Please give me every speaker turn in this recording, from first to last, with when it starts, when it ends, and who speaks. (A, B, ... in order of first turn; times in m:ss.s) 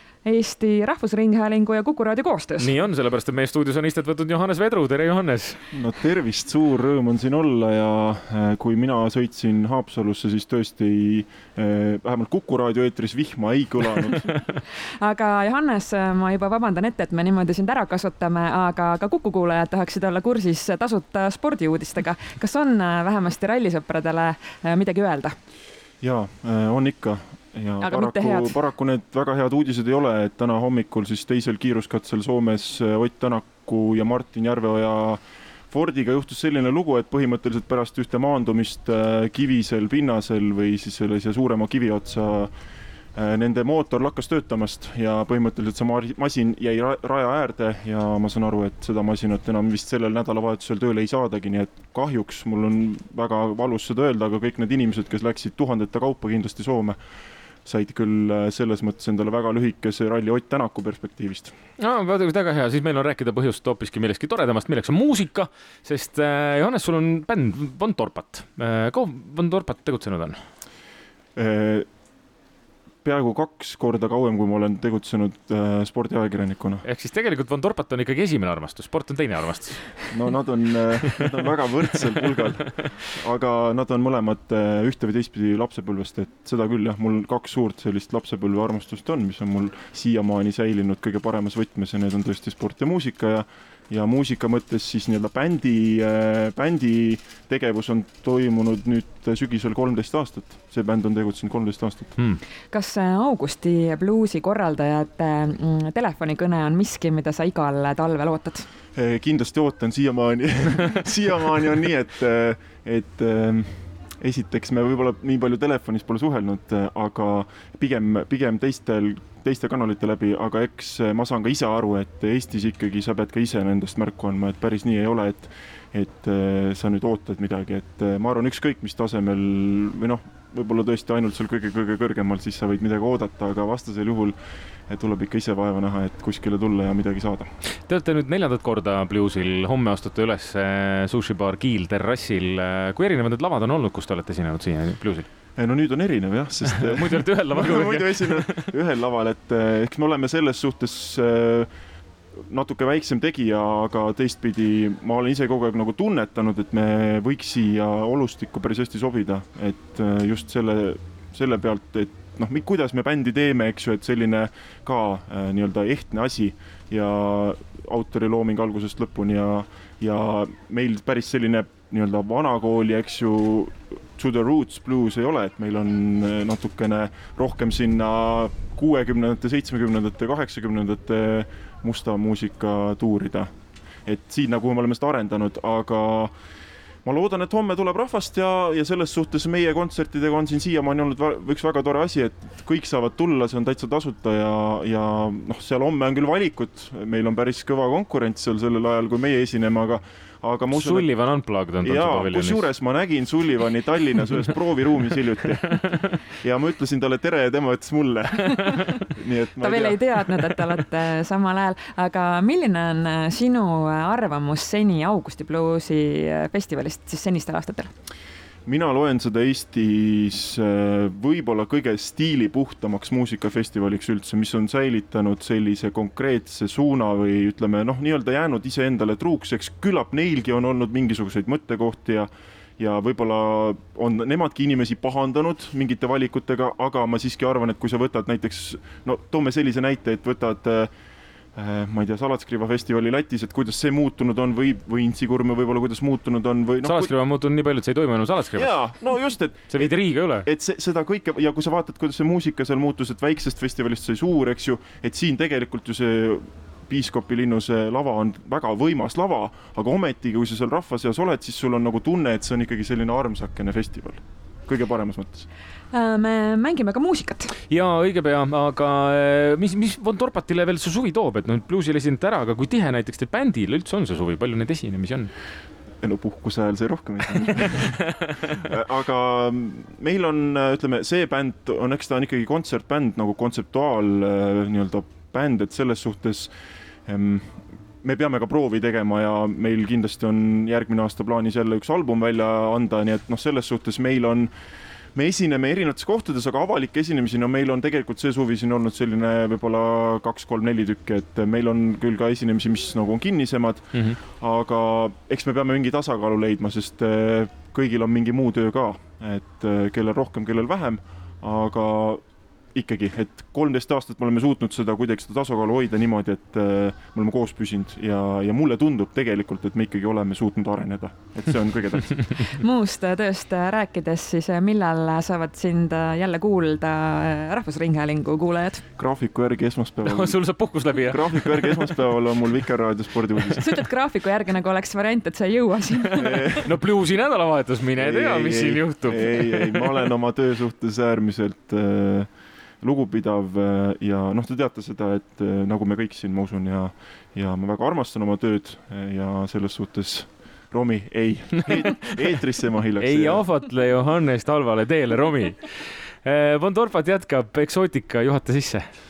0:00.2-0:02.7 A
0:02.6-0:05.6 B
0:05.7-0:14.3 C
0:14.8-0:25.4 A
0:26.0-0:42.5 C
0:27.8-0:28.6 A
0:43.1-0:57.0 C
0:57.6-1:01.6 C
1:01.8-1:10.4 B
1:11.4-1:11.8 C
1:13.0-1:16.8 C
1:16.8-1:20.2 B
1:20.1-1:42.2 C
1:42.7-1:48.7 A
1:48.9-2:14.4 C
2:14.9-2:17.5 C
2:17.8-2:25.3 B
2:25.6-2:31.7 C
2:26.6-2:28.7 B
2:32.5-3:03.5 C
3:04.0-3:06.3 C
3:07.0-3:21.1 C
3:20.7-3:22.7 B
3:21.8-3:30.0 C
3:29.6-3:37.9 A
3:38.6-4:00.9 C
4:01.5-4:07.1 C
4:06.8-4:09.0 B
4:08.5-4:25.5 C
4:09.7-4:10.5 B
4:25.9-4:27.6 A
4:27.7-4:35.3 B
4:36.0-4:38.0 C
4:37.6-4:37.9 B
4:38.6-4:46.5 C
4:47.0-4:54.5 C
4:55.1-5:12.2 C
5:03.9-5:04.2 B
5:12.7-5:22.3 C
5:22.5-5:28.8 A
5:29.0-5:30.4 C
5:30.0-5:32.1 B
5:31.0-5:33.7 C
5:33.6-5:36.6 A
5:36.2-5:36.7 C
5:36.6-5:40.1 B
5:38.0-5:42.3 C
5:42.8-5:53.4 C
5:51.6-5:52.2 B
5:53.0-5:58.9 B